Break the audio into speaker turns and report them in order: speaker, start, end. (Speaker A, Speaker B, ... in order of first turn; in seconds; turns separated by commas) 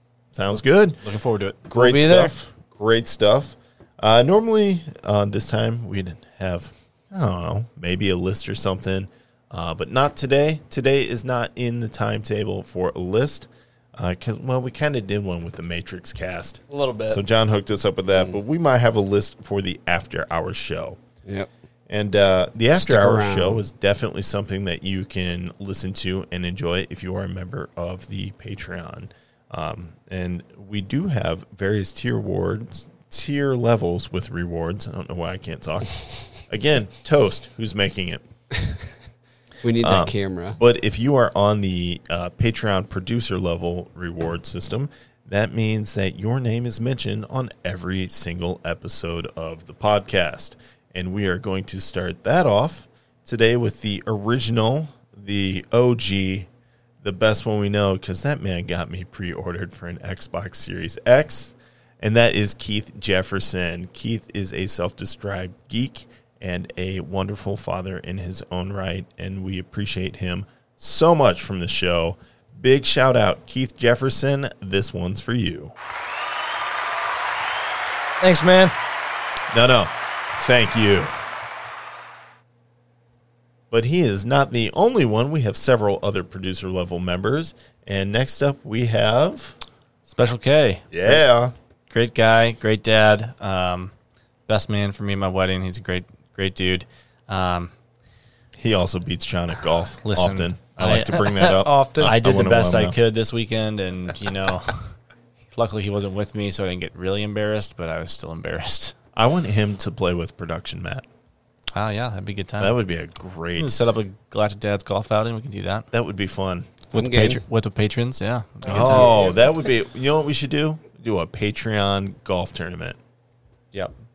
Speaker A: 0.3-1.0, Speaker B: 1.0-1.6, Speaker A: 1.7-21.0, Speaker C: 1.8-2.3, Speaker C: 16.7-17.2, Speaker A: 21.9-38.2, Speaker D: 22.8-23.6, Speaker D: 39.6-40.6, Speaker A: 39.8-56.5, Speaker A: 57.0-75.8, Speaker C: 78.2-78.7, Speaker A: 79.5-81.2, Speaker A: 83.7-89.6, Speaker B: 90.1-91.2, Speaker A: 90.9-91.5, Speaker B: 91.9-93.9, Speaker B: 94.5-97.7, Speaker A: 98.6-103.0, Speaker B: 100.0-104.9, Speaker C: 101.6-102.2, Speaker B: 105.5-109.0, Speaker A: 109.2-111.0, Speaker B: 111.7-112.8, Speaker A: 112.6-113.8, Speaker B: 113.6-115.9, Speaker A: 115.9-116.7, Speaker B: 116.9-119.2, Speaker D: 117.0-117.4, Speaker C: 118.6-119.4, Speaker A: 118.7-123.0